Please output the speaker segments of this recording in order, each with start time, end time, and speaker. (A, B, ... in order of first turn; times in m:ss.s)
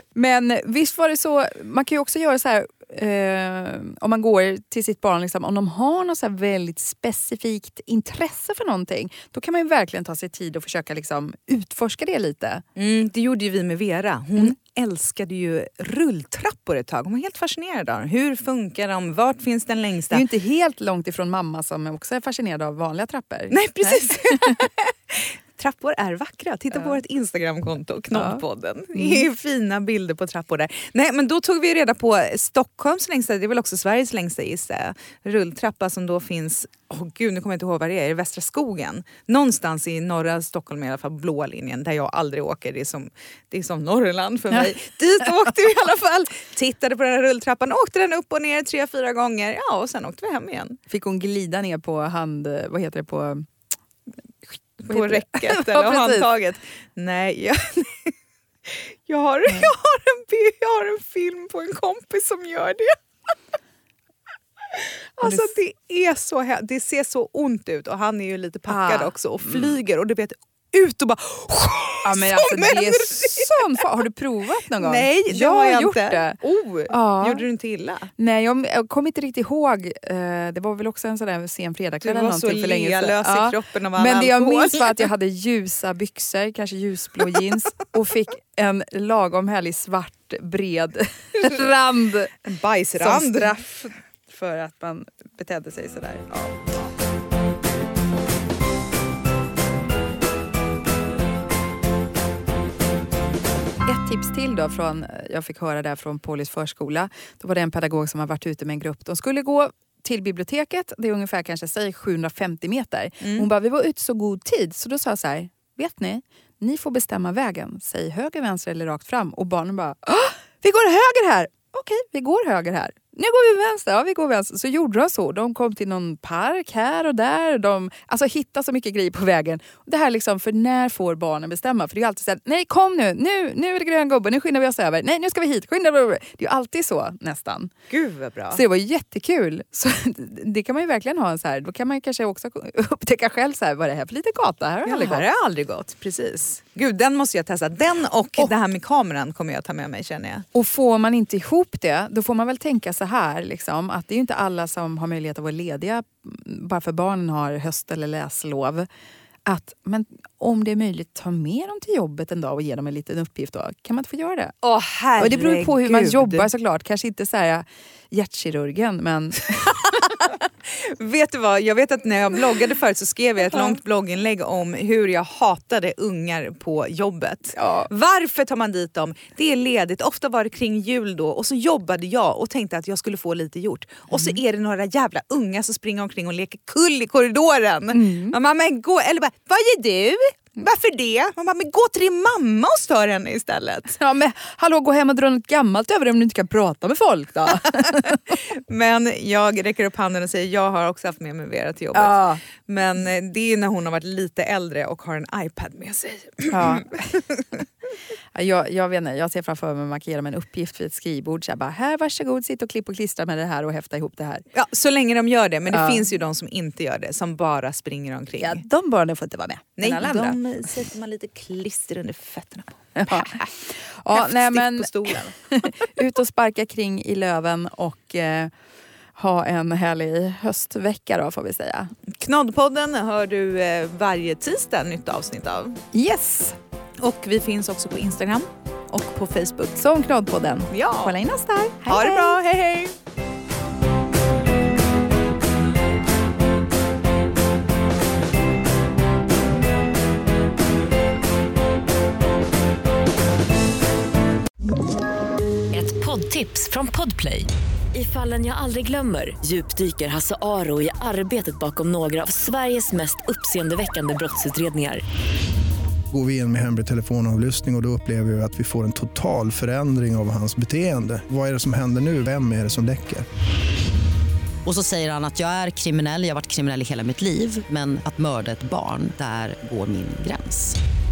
0:00.1-0:12.6 A
0:12.8-0:20.2 B
0:20.1-0:24.6 A
0:23.5-0:50.8 B
0:28.1-0:28.4 A
0:29.0-0:29.3 A
0:50.9-0:53.5 A
0:54.8-0:58.1 B
0:54.9-0:56.3 A
0:58.6-1:03.0 B
1:05.2-1:13.8 B
1:05.2-1:05.5 A
1:08.7-1:09.7 A
1:12.0-1:17.5 A
1:14.8-1:18.1 B
1:18.2-1:32.3 A
1:22.0-1:25.1 B
1:31.4-1:31.6 B
1:32.4-1:33.6 B
1:33.0-1:36.7 A
1:43.8-2:17.7 A
1:53.2-1:53.5 B
2:17.9-2:18.6 B
2:18.5-2:25.2 A
2:24.8-2:30.4 B
2:30.5-2:38.9 A
2:39.5-2:44.5 A
2:44.6-2:46.5 B
2:45.2-2:50.2 A
2:49.7-3:14.0 B
2:53.5-2:53.8 A
2:57.6-2:57.9 A
3:04.1-3:04.4 A
3:07.9-3:08.4 A
3:14.0-3:18.4 A
3:17.8-3:27.6 B
3:21.9-3:22.4 A
3:26.5-3:27.2 A
3:28.3-3:34.4 A
3:34.5-3:38.6 B
3:35.7-3:36.1 A
3:38.4-3:40.4 A
3:39.8-3:43.5 B
3:43.0-3:48.5 A
3:44.1-3:45.4 B
3:49.1-3:51.9 A
3:52.1-3:55.8 B
3:55.9-3:56.6 A
3:57.0-3:59.7 B
3:59.8-4:02.4 A
4:00.7-4:01.2 B
4:01.9-4:03.0 B
4:15.7-4:25.0 C
4:26.1-4:33.2 D
4:34.6-4:40.8 E